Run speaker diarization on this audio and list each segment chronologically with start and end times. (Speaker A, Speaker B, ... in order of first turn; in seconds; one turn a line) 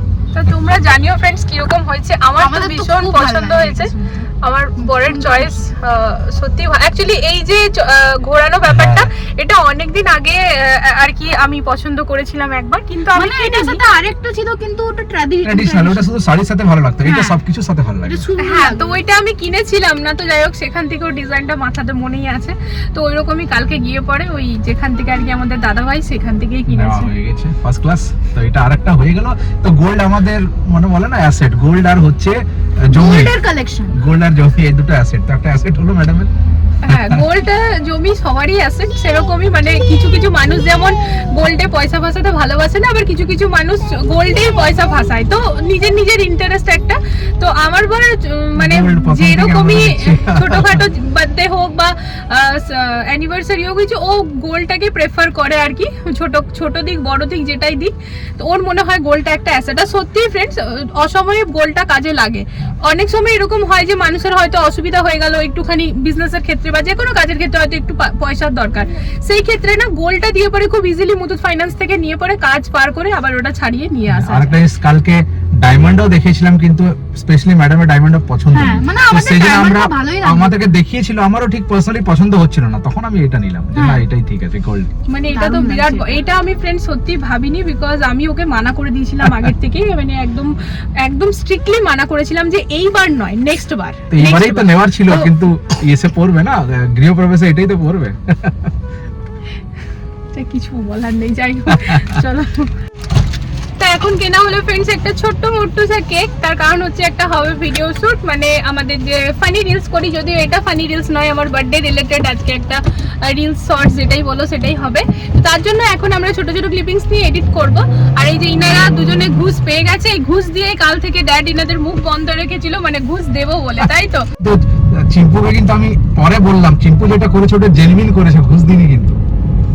Speaker A: 0.3-13.8
Speaker B: 2.4-4.3
Speaker B: 4.8-5.6
Speaker C: 8.7-9.1
Speaker B: 13.1-16.1
Speaker C: 15.4-18.3
Speaker B: 17.0-17.4
Speaker B: 18.0-19.0
Speaker A: 18.4-27.1
Speaker C: 26.7-33.3
Speaker B: 32.9-34.0
Speaker C: 33.9-36.3
Speaker A: 36.8-74.6
Speaker C: 36.9-37.2
Speaker C: 48.6-50.8
Speaker C: 74.1-84.9
Speaker B: 78.5-80.5
Speaker B: 83.8-84.0
Speaker A: 85.1-95.3
Speaker B: 85.3-86.2
Speaker C: 94.1-98.7
Speaker A: 100.3-102.7
Speaker A: 103.8-124.2
Speaker C: 124.4-129.2